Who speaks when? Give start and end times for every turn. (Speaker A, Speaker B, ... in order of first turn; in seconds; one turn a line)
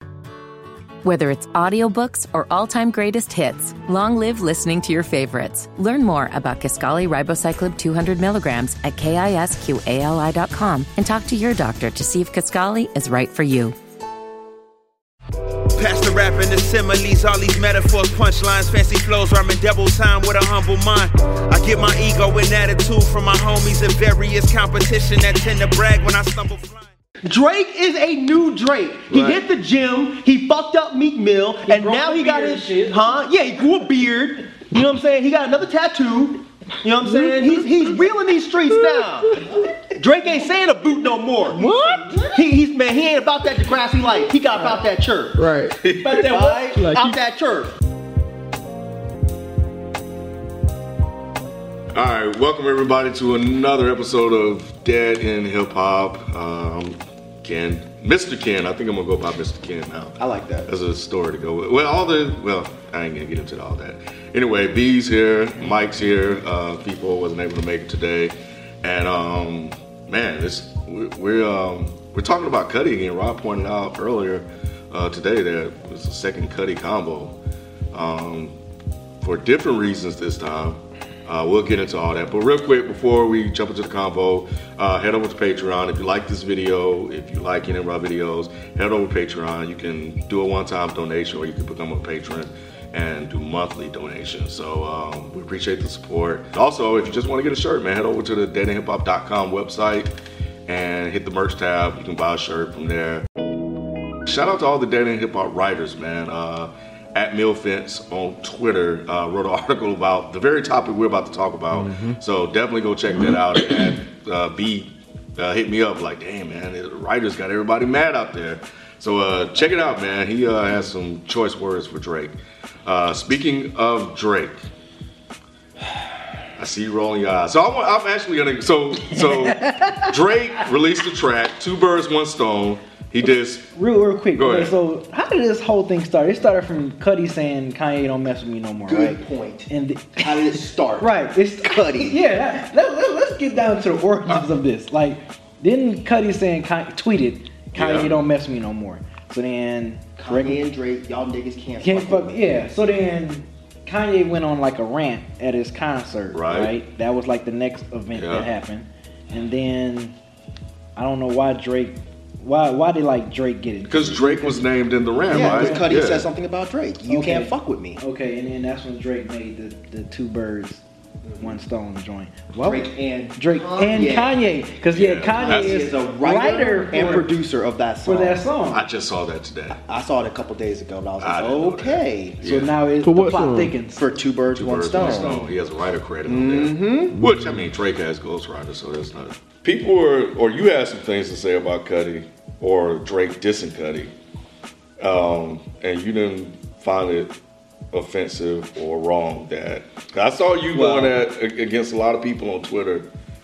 Speaker A: 1.0-13.7
Speaker B: 15.8-26.9
Speaker C: 27.2-41.7
Speaker D: 29.1-29.4
Speaker E: 31.6-33.2
Speaker D: 37.0-37.7
Speaker D: 38.7-39.4
Speaker D: 41.5-42.2
Speaker E: 41.7-42.3
Speaker C: 42.3-45.5
Speaker D: 45.3-47.2
Speaker F: 45.8-46.3
Speaker C: 46.0-47.7
Speaker F: 51.9-77.4
Speaker C: 60.2-60.7
Speaker F: 77.9-78.6
Speaker F: 79.2-100.1
Speaker F: 100.7-103.2
Speaker F: 104.3-124.6
Speaker D: 111.7-112.2
Speaker F: 126.6-133.7
Speaker E: 129.1-130.1
Speaker E: 133.8-150.6
Speaker F: 134.4-134.7
Speaker C: 138.8-141.1
Speaker C: 141.6-142.2
Speaker F: 147.7-148.1
Speaker C: 150.2-152.7
Speaker E: 151.8-160.1
Speaker F: 156.3-156.7
Speaker F: 158.1-158.5
Speaker E: 160.9-165.9
Speaker F: 163.9-166.3
Speaker C: 165.3-168.0
Speaker E: 167.1-170.8
Speaker C: 171.2-171.6
Speaker E: 171.4-177.3
Speaker C: 172.6-174.4
Speaker F: 174.9-175.9
Speaker C: 175.4-178.4
Speaker E: 178.0-178.8
Speaker F: 178.7-179.8
Speaker C: 179.7-182.4
Speaker F: 181.2-182.7
Speaker E: 182.4-184.0
Speaker D: 183.0-183.7
Speaker C: 184.0-185.4
Speaker F: 184.5-194.1
Speaker E: 184.9-185.5
Speaker C: 186.2-187.2
Speaker D: 187.1-187.6
Speaker F: 195.0-197.3
Speaker F: 197.9-203.1
Speaker E: 200.8-201.0
Speaker C: 200.8-201.1